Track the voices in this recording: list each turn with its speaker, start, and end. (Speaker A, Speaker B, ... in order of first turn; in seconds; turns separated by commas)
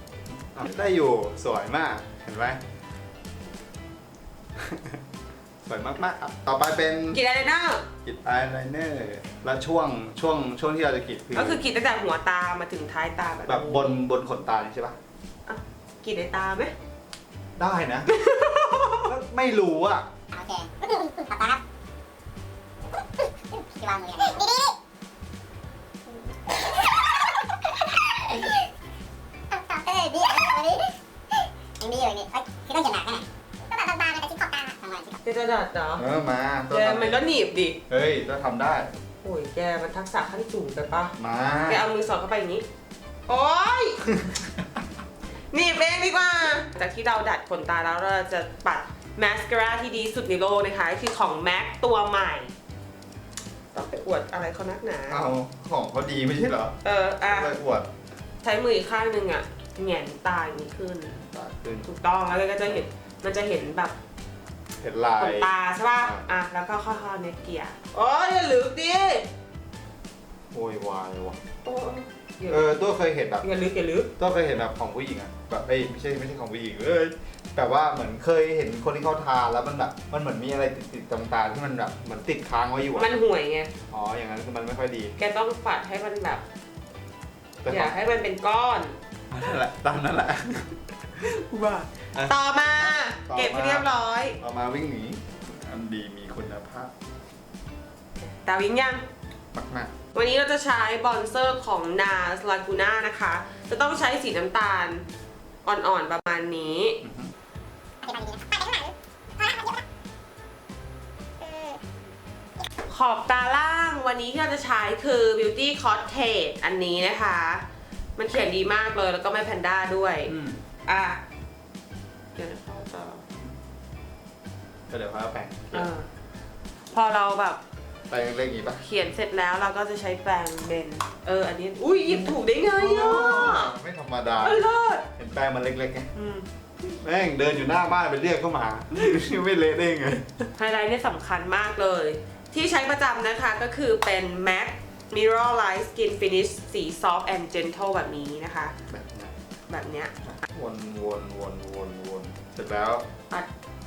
Speaker A: 0.3-2.6, Speaker A: 4.6-5.0, Speaker A: 5.6-7.2, Speaker B: 7.1-7.8, Speaker A: 8.1-11.6, Speaker B: 11.3-14.0, Speaker A: 13.5-15.0, Speaker B: 15.5-16.7, Speaker A: 17.6-18.1, Speaker B: 18.1-19.1, Speaker A: 19.0-20.1, Speaker C: 20.3-21.6, Speaker C: 23.5-24.8, Speaker C: 26.2-28.6, Speaker C: 29.5-30.9, Speaker C: 31.8-35.2, Speaker B: 35.2-36.0, Speaker A: 36.0-37.2, Speaker B: 36.7-37.8, Speaker A: 37.9-38.9, Speaker B: 39.2-41.1, Speaker A: 41.2-41.9, Speaker B: 41.7-42.6, Speaker B: 43.3-44.0, Speaker A: 44.2-44.5, Speaker B: 45.5-52.5, Speaker B: 53.7-55.3, Speaker A: 55.1-56.8, Speaker B: 56.8-57.5, Speaker A: 57.3-57.9, Speaker B: 58.4-61.2, Speaker A: 61.1-61.9, Speaker B: 61.8-63.9, Speaker A: 64.8-66.2, Speaker B: 65.2-69.3, Speaker A: 70.5-71.4, Speaker B: 71.6-72.8, Speaker A: 72.5-73.5, Speaker B: 73.4-74.1, Speaker A: 74.2-83.1, Speaker B: 83.0-83.7, Speaker A: 83.9-85.2, Speaker B: 85.2-86.4, Speaker A: 87.6-88.0, Speaker B: 87.7-89.0, Speaker A: 89.3-96.9, Speaker B: 91.5-94.4, Speaker B: 98.2-99.1, Speaker A: 99.5-99.9, Speaker B: 100.1-105.1, Speaker B: 105.7-107.0, Speaker A: 107.0-107.3, Speaker C: 108.0-109.8, Speaker C: 111.5-111.8, Speaker B: 112.9-117.7, Speaker B: 118.2-121.2, Speaker A: 120.3-120.6, Speaker B: 122.4-123.2, Speaker A: 124.9-125.9, Speaker B: 125.7-126.1, Speaker B: 126.9-127.6, Speaker A: 128.1-128.8, Speaker B: 128.8-133.8, Speaker A: 132.1-134.6, Speaker B: 134.4-135.1, Speaker A: 135.2-136.1, Speaker B: 136.2-136.5, Speaker A: 136.8-140.4, Speaker B: 140.6-148.7, Speaker A: 148.9-149.3, Speaker B: 149.7-150.1, Speaker A: 150.2-153.1